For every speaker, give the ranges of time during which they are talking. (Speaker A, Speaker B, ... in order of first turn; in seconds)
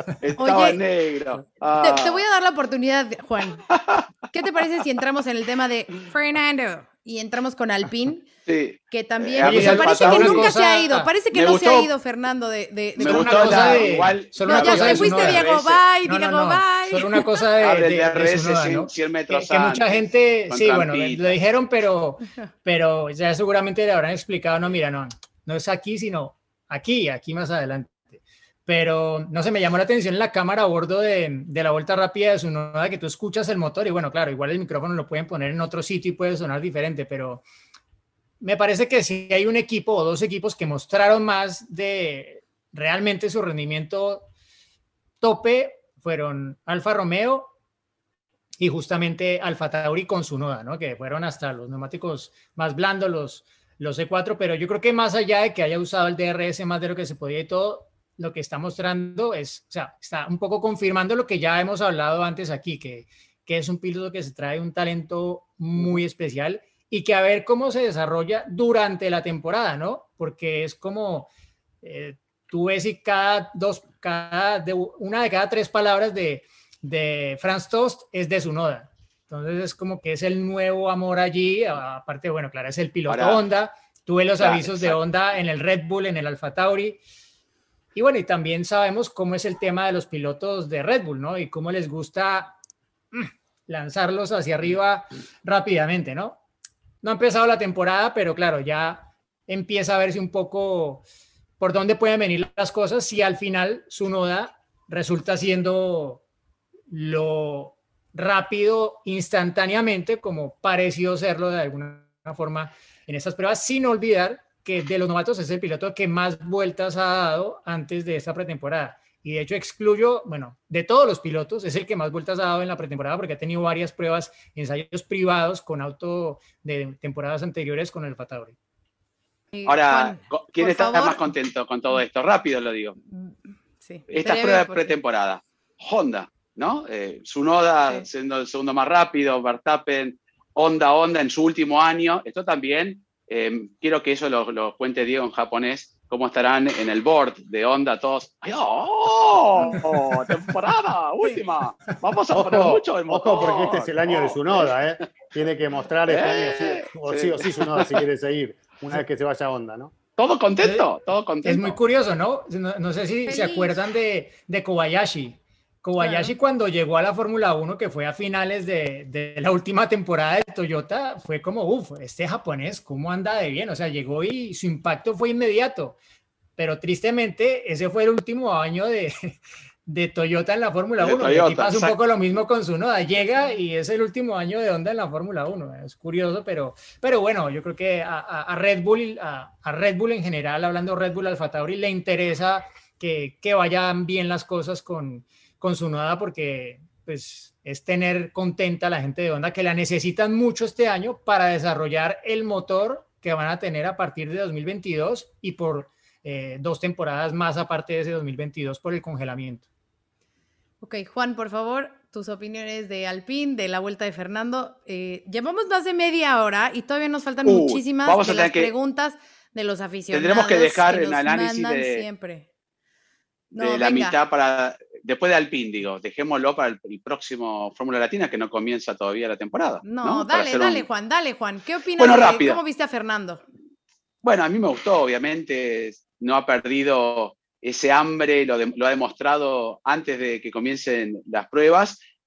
Speaker A: 0.2-2.2, 3.7-4.0, 8.5-10.5, 11.3-11.9, 13.0-15.8, 17.6-21.4, 83.1-83.4, 84.4-85.0, 129.7-133.0, 134.1-154.7, 156.1-158.0, 160.2-161.8, 181.0-182.0, 217.4-218.7, 220.1-222.1, 223.6-230.9, 232.0-232.6, 234.2-242.0
Speaker B: 0.4-0.8, 1.8-3.6, 4.3-8.3, 8.9-17.2, 129.5-131.2, 133.1-134.9, 163.2-163.8, 166.0-166.3, 210.8-222.4, 223.5-224.2, 229.8-233.4
Speaker C: 9.4-11.1, 13.0-15.5, 16.0-37.4, 38.4-44.3, 45.2-47.5, 48.6-71.3, 71.8-87.0, 87.9-92.5, 93.1-96.4, 97.0-101.0, 101.6-106.2, 106.9-128.6, 161.4-176.0, 176.6-209.7
Speaker D: 152.3-159.9